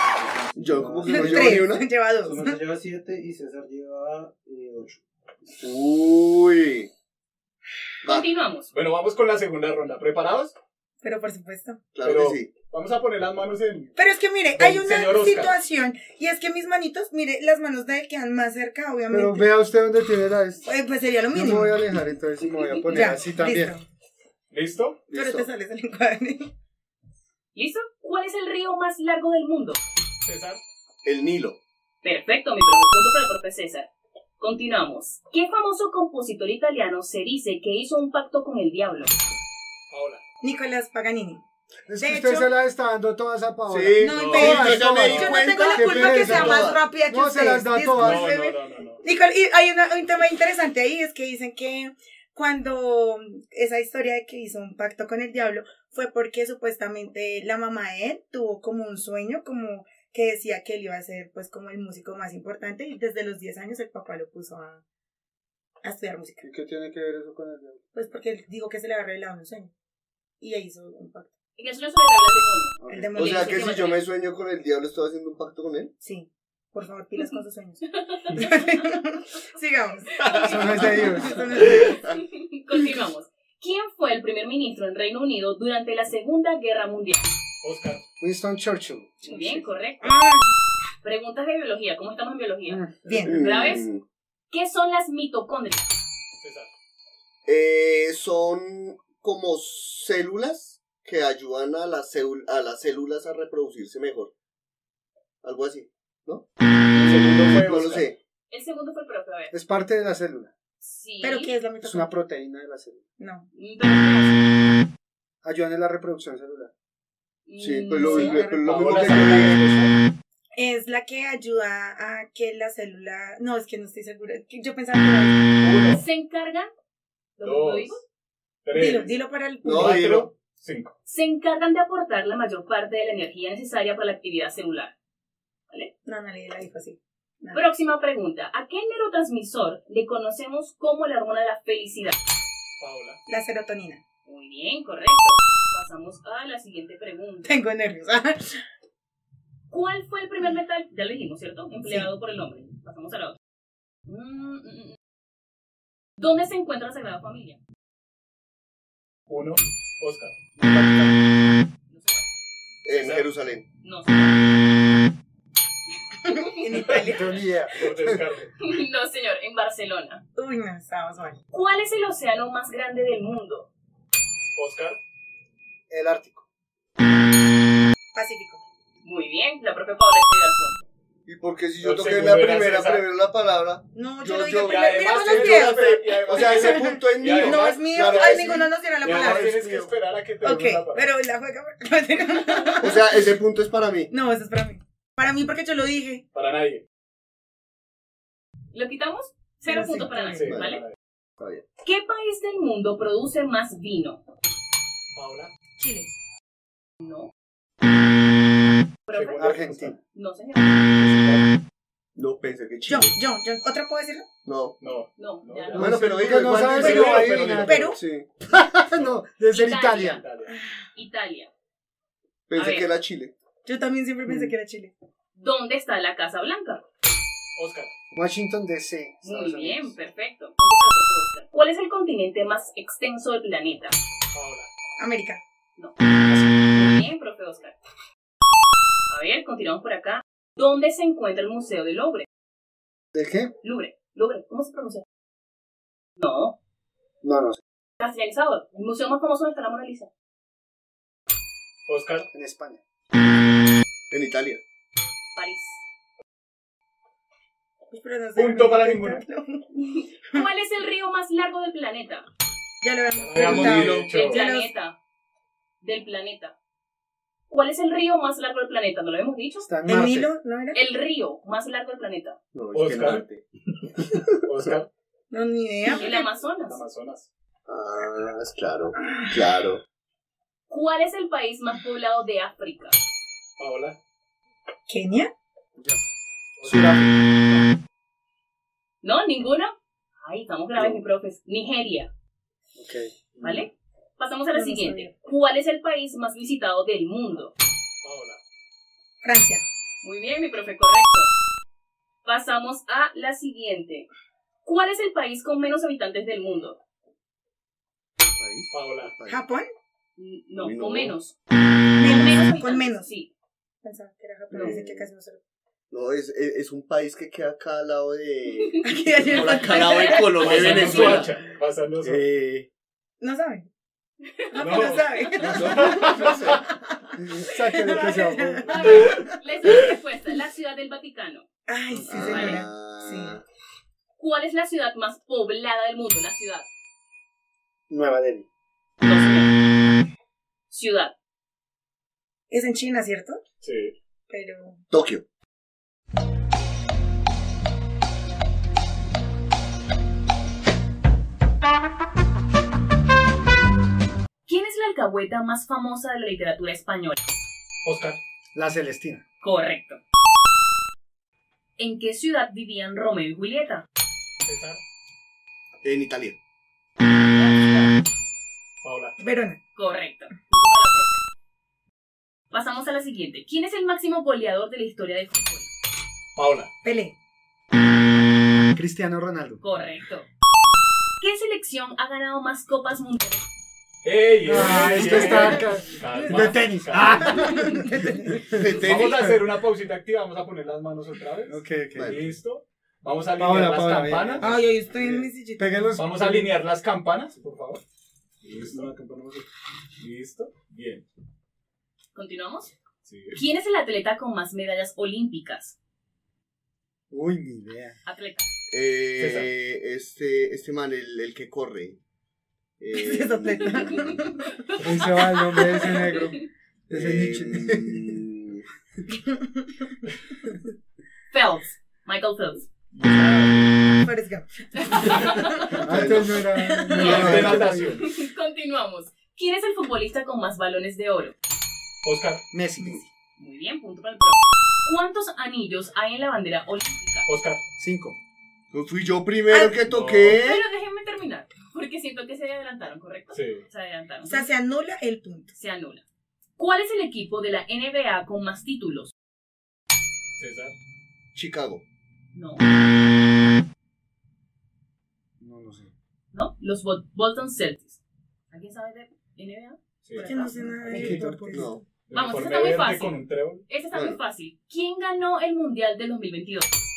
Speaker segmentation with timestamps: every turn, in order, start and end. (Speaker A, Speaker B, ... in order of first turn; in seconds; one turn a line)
Speaker A: 0.1-1.6
Speaker B: 0.6-1.9
Speaker C: 1.1-2.6
Speaker A: 2.2-5.0
Speaker B: 5.6-6.9
Speaker D: 8.1-8.7
Speaker E: 8.7-10.6
Speaker C: 11.0-11.8
Speaker B: 11.9-12.5
Speaker E: 12.0-13.9
Speaker C: 14.0-19.5
Speaker E: 14.6-15.6
Speaker F: 19.1-20.7
Speaker C: 20.7-21.8
Speaker F: 21.3-23.8
Speaker C: 22.8-23.8
Speaker E: 24.5-25.0
Speaker B: 25.1-25.5
Speaker C: 25.1-26.5
Speaker D: 27.5-29.8
Speaker E: 30.2-30.6
Speaker B: 31.0-31.6
Speaker D: 32.0-39.1
Speaker E: 39.9-40.2
Speaker C: 40.4-41.4
Speaker F: 41.9-48.4
Speaker C: 42.0-42.5
Speaker B: 43.7-46.8
Speaker C: 44.0-64.8
Speaker E: 44.0-45.5
Speaker E: 46.2-46.6
Speaker E: 48.0-49.0
Speaker C: 65.8-66.4
Speaker F: 66.4-67.8
Speaker C: 67.9-69.7
Speaker C: 70.4-71.3
Speaker D: 71.6-74.0
Speaker F: 72.9-73.1
Speaker C: 72.9-73.8
Speaker B: 73.1-75.9
Speaker C: 76.0-82.0
Speaker D: 77.9-78.9
Speaker D: 80.2-80.8
Speaker F: 80.5-81.5
Speaker D: 81.5-87.3
Speaker E: 87.6-88.0
Speaker F: 88.2-89.1
Speaker D: 89.2-90.2
Speaker C: 89.2-90.5
Speaker D: 91.0-93.9
Speaker F: 92.7-93.2
Speaker C: 93.0-93.3
Speaker B: 93.2-94.0
Speaker D: 94.5-95.9
Speaker E: 96.4-96.7
Speaker B: 97.5-104.3
Speaker B: 105.4-106.5
Speaker D: 106.9-107.3
Speaker E: 107.1-108.1
Speaker B: 107.1-108.2
Speaker D: 108.5-109.5
Speaker F: 109.5-110.5
Speaker D: 110.8-111.6
Speaker C: 111.2-112.1
Speaker F: 111.8-113.0
Speaker C: 113.2-113.5
Speaker D: 113.5-114.4
Speaker F: 115.4-116.7
Speaker D: 117.5-118.4
Speaker B: 117.6-119.6
Speaker C: 118.0-119.3
Speaker E: 118.6-119.9
Speaker C: 120.6-125.5
Speaker E: 125.6-126.0
Speaker D: 125.9-126.7
Speaker D: 127.4-128.0
Speaker E: 127.4-128.0
Speaker E: 128.7-129.1
Speaker C: 128.7-130.0
Speaker B: 129.6-130.3
Speaker E: 129.7-130.9
Speaker D: 131.1-134.9
Speaker C: 136.1-137.6
Speaker D: 137.5-142.2
Speaker E: 142.8-143.2
Speaker C: 143.3-144.0
Speaker D: 144.3-147.5
Speaker C: 147.5-148.6
Speaker D: 149.7-153.4
Speaker D: 154.1-155.0
Speaker D: 156.2-157.6
Speaker E: 159.3-161.2
Speaker D: 161.9-162.3
Speaker B: 162.8-163.7
Speaker E: 162.9-163.3
Speaker D: 163.8-164.4
Speaker D: 166.3-166.9
Speaker C: 166.3-167.4
Speaker F: 166.8-167.7
Speaker E: 167.7-168.5
Speaker D: 168.6-170.2
Speaker C: 170.4-171.4
Speaker D: 171.5-173.7
Speaker E: 174.6-175.0
Speaker F: 175.9-176.4
Speaker C: 178.1-178.6
Speaker D: 179.0-180.8
Speaker B: 181.3-189.9
Speaker E: 181.8-183.1
Speaker C: 183.9-189.5
Speaker E: 184.6-191.1
Speaker C: 190.4-193.2
Speaker B: 192.8-194.1
Speaker C: 194.1-196.2
Speaker E: 196.3-196.8
Speaker D: 198.7-200.8
Speaker C: 199.7-200.5
Speaker E: 200.4-200.9
Speaker B: 200.4-200.8
Speaker B: 201.4-201.6
Speaker D: 201.8-204.2
Speaker E: 205.2-205.5
Speaker C: 205.8-206.1
Speaker D: 207.0-207.3
Speaker D: 209.1-210.9
Speaker E: 209.1-209.7
Speaker F: 209.4-210.0
Speaker E: 211.0-211.4
Speaker B: 212.2-213.2
Speaker C: 212.9-214.3
Speaker B: 214.4-214.8
Speaker E: 214.8-217.9
Speaker D: 215.2-216.2
Speaker F: 215.8-218.0
Speaker B: 215.8-218.3
Speaker C: 216.8-218.0
Speaker F: 218.5-220.2
Speaker E: 218.9-219.2
Speaker D: 219.5-220.3
Speaker E: 220.0-220.5
Speaker C: 220.5-220.9
Speaker D: 220.9-221.5
Speaker B: 222.5-223.3
Speaker D: 222.5-222.9
Speaker C: 223.7-224.9
Speaker F: 224.3-224.5
Speaker D: 225.3-226.8
Speaker E: 227.6-227.9
Speaker F: 228.1-229.9
Speaker D: 229.2-233.9
Speaker E: 234.3-234.7
Speaker C: 235.0-235.4
Speaker D: 236.7-237.8
Speaker D: 239.1-242.3
Speaker F: 243.1-243.5
Speaker D: 243.6-245.0
Speaker D: 246.2-246.6
Speaker F: 247.2-247.6
Speaker D: 248.0-250.1
Speaker E: 251.9-252.3
Speaker F: 252.3-252.8
Speaker B: 254.1-254.6
Speaker D: 255.3-255.8
Speaker C: 257.9-259.6
Speaker E: 258.4-259.2
Speaker D: 259.8-262.3
Speaker C: 262.8-264.7
Speaker E: 263.2-264.4
Speaker B: 263.4-264.1
Speaker D: 264.1-265.0
Speaker D: 265.8-266.6
Speaker D: 267.5-269.7
Speaker F: 269.6-270.3
Speaker C: 269.9-270.8
Speaker D: 270.7-272.4
Speaker B: 272.5-273.4
Speaker E: 272.7-273.2
Speaker B: 274.1-274.4
Speaker E: 274.4-274.9
Speaker C: 275.3-276.2
Speaker D: 275.9-276.8
Speaker E: 276.7-277.3
Speaker B: 277.7-279.8
Speaker C: 279.0-279.3
Speaker D: 280.7-283.0
Speaker E: 283.6-284.0
Speaker C: 284.9-285.3
Speaker E: 286.6-287.1
Speaker F: 286.6-287.1
Speaker D: 289.0-292.1
Speaker F: 292.8-293.1
Speaker D: 293.4-297.5
Speaker C: 294.5-295.1
Speaker E: 298.0-298.4
Speaker C: 299.2-299.6
Speaker D: 300.0-301.3
Speaker D: 302.2-304.1
Speaker D: 304.6-306.8
Speaker B: 308.4-309.4
Speaker E: 308.7-309.1
Speaker C: 309.3-309.7
Speaker D: 310.2-311.4
Speaker B: 310.6-311.1
Speaker C: 312.0-313.1
Speaker D: 312.0-313.3
Speaker C: 313.8-315.4
Speaker B: 314.5-315.1
Speaker D: 314.5-314.8
Speaker B: 315.9-321.3
Speaker C: 318.8-321.1
Speaker D: 319.3-321.3
Speaker E: 320.4-322.2
Speaker B: 322.0-322.7
Speaker C: 323.2-323.7
Speaker D: 324.4-324.9
Speaker C: 324.5-326.0
Speaker E: 324.6-326.6
Speaker B: 325.4-326.6
Speaker F: 327.2-328.9
Speaker C: 327.4-329.9
Speaker D: 328.7-331.4
Speaker E: 328.8-329.1
Speaker C: 331.7-333.4
Speaker B: 332.1-333.4
Speaker D: 332.1-332.6
Speaker D: 334.2-336.7
Speaker F: 337.9-338.5
Speaker D: 339.0-339.5
Speaker D: 340.7-341.1
Speaker C: 342.5-343.4
Speaker E: 343.6-343.9
Speaker C: 344.3-344.8
Speaker B: 344.9-345.2
Speaker D: 354.5-357.2
Speaker E: 357.8-358.2
Speaker F: 358.5-359.2
Speaker D: 359.4-360.0
Speaker D: 361.8-363.9
Speaker E: 364.4-364.8
Speaker B: 365.8-366.4
Speaker D: 367.3-368.0
Speaker E: 368.8-369.2
Speaker C: 369.2-369.6
Speaker D: 369.8-371.2
Speaker D: 372.5-375.7
Speaker E: 376.4-376.7
Speaker C: 376.8-377.1
Speaker F: 378.7-379.6
Speaker D: 379.6-380.3
Speaker D: 381.2-383.5
Speaker E: 384.0-387.4
Speaker F: 384.4-389.4
Speaker C: 385.0-385.6
Speaker C: 387.4-388.5
Speaker B: 388.5-389.3
Speaker E: 388.8-394.5
Speaker F: 391.5-392.2
Speaker B: 391.9-392.2
Speaker F: 393.4-394.6
Speaker C: 394.4-395.9
Speaker F: 395.6-396.5
Speaker E: 396.0-397.8
Speaker E: 398.4-399.5
Speaker A: 398.6-399.2
Speaker E: 400.0-401.1
Speaker D: 402.1-402.7
Speaker E: 403.1-403.4
Speaker D: 403.3-405.8
Speaker F: 407.1-408.0
Speaker D: 408.1-408.5
Speaker B: 408.7-412.0
Speaker E: 409.2-409.5
Speaker B: 412.8-414.2
Speaker C: 412.9-414.4
Speaker D: 414.4-414.8
Speaker F: 414.8-416.4
Speaker D: 415.6-416.3
Speaker C: 415.6-416.1
Speaker B: 416.9-418.6
Speaker F: 416.9-418.2
Speaker C: 419.3-419.6
Speaker D: 421.3-422.7
Speaker E: 422.9-423.6
Speaker C: 424.0-425.8
Speaker D: 424.8-425.8
Speaker F: 425.8-428.0
Speaker B: 425.8-426.4
Speaker C: 426.4-427.4
Speaker E: 426.9-428.1
Speaker D: 427.0-427.4
Speaker B: 427.0-427.8
Speaker D: 427.9-431.3
Speaker E: 432.0-432.4
Speaker F: 432.5-433.0
Speaker D: 433.4-437.3
Speaker E: 437.3-437.6
Speaker F: 437.8-438.2
Speaker B: 438.7-440.6
Speaker C: 439.5-439.8
Speaker E: 439.9-440.4
Speaker D: 440.3-444.5
Speaker E: 443.3-443.6
Speaker C: 444.2-445.5
Speaker D: 445.6-446.0
Speaker D: 446.6-449.1
Speaker E: 450.3-450.7
Speaker B: 451.4-451.8
Speaker D: 452.3-452.6
Speaker F: 455.4-455.9
Speaker D: 456.3-458.0
Speaker D: 458.5-460.5
Speaker E: 460.0-460.3
Speaker C: 460.2-461.8
Speaker F: 460.8-461.7
Speaker E: 460.9-461.2
Speaker B: 461.5-461.8
Speaker E: 462.1-463.6
Speaker D: 462.1-463.2
Speaker D: 463.7-466.7